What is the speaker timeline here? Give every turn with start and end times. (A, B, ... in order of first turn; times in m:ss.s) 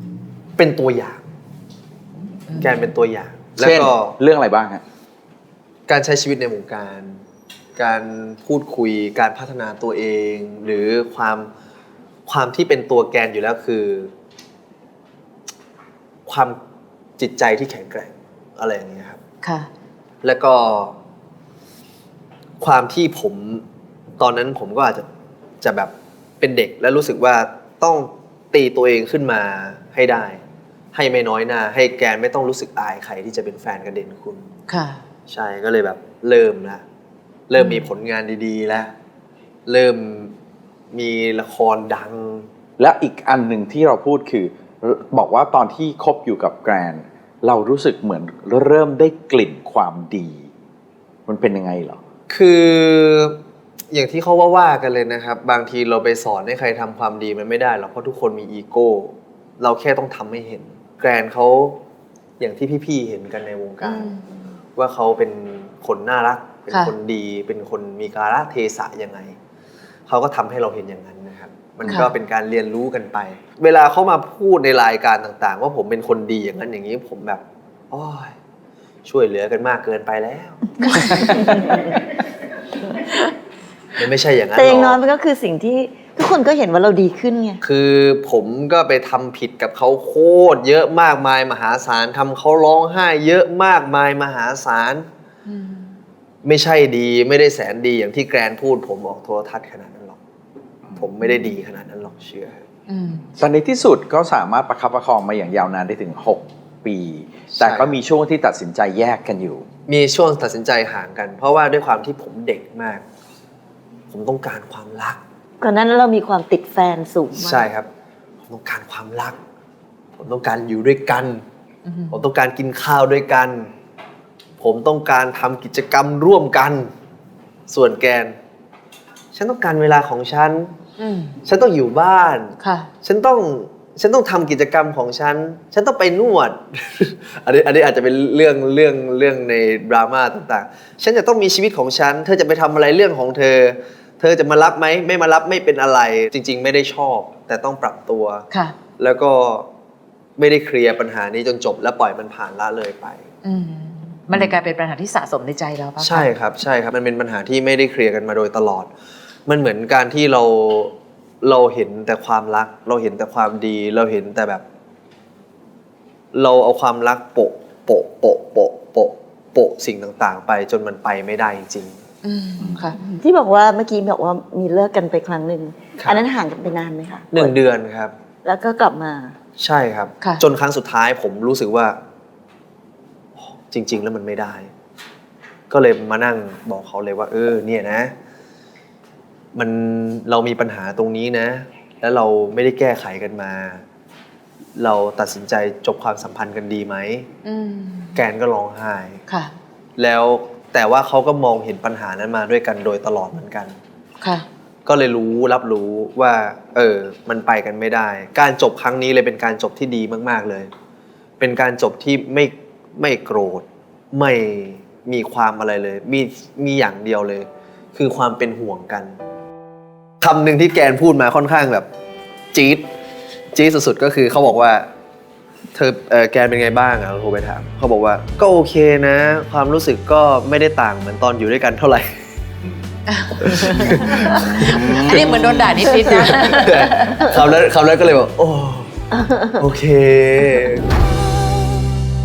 0:00.6-0:01.2 A
0:02.6-0:04.2 A
0:03.6-0:04.8 B
0:05.9-0:07.2 A
0:07.8-0:11.5 A
0:12.3-0:14.1 A
0:16.3-0:16.6 A
0:17.2-0:19.2 A
0:19.4-0:19.7 C
0:20.2-0:21.0 A
0:22.6-0:23.6 A
0:24.2-0:25.1 A
0:25.6-0:30.4 A
0:30.9-0:34.5 A
0:34.7-0:35.0 C
0:35.3-0:36.8 A
0:37.5-0:38.9 A
0:37.6-0:37.9 C
0:39.7-0:40.3 A
0:40.9-0:42.5 A
0:42.8-0:50.4 B
0:51.3-0:52.0 B
0:52.3-0:53.4 A
0:53.9-1:01.8 A
1:02.4-1:04.1 A
1:03.8-1:04.2 C
1:04.8-1:09.4 A
1:10.1-1:18.3 A
1:11.8-1:12.1 C
1:19.0-1:21.6 A
1:20.9-1:21.6 D
1:24.0-1:25.0 A
1:24.6-1:27.6 D
1:27.6-1:35.1 A
1:35.5-1:36.0 C
1:36.4-1:40.2 A
1:41.0-1:42.6 A
1:42.9-1:43.3 C
1:43.4-1:49.6 B
1:47.5-1:48.0 A
1:49.9-1:53.0 A
1:54.1-1:55.2 A
1:55.6-1:57.7 D
1:57.4-1:57.9 A
1:58.5-1:59.4 A
2:00.2-2:01.4 A
2:01.9-2:02.2 C
2:02.1-2:03.7 A
2:04.6-2:06.9 A
2:07.7-2:08.4 A
2:09.3-2:10.7 A
2:11.0-2:11.4 C
2:11.4-2:28.5 A
2:12.6-2:12.9 C
2:29.0-2:29.7 A
2:30.4-2:33.2 A
2:33.4-2:36.3 C
2:36.0-2:38.9 A
2:39.5-2:44.6 A
2:46.3-2:52.0 A
2:52.2-2:53.0 C
2:52.6-2:52.9 B
2:53.0-2:57.5 D
2:57.3-2:58.1 A
2:58.4-2:59.4 D
2:59.6-3:02.0 A
3:03.5-3:04.7 A
3:05.7-3:08.1 A
3:09.6-3:13.8 A
3:14.8-3:17.3 A
3:17.4-3:18.2 C
3:18.2-3:19.2 A
3:20.0-3:23.8 A
3:24.2-3:24.5 C
3:24.8-3:30.7 A
3:31.4-3:39.2 A
3:40.2-3:41.9 A
3:42.5-3:42.8 A
3:43.5-3:44.9 A
3:45.8-3:52.1 A
3:53.1-3:57.2 C
3:53.4-3:58.9 A
3:54.8-3:55.6 B
3:59.6-4:00.9 A
4:00.9-4:01.7 D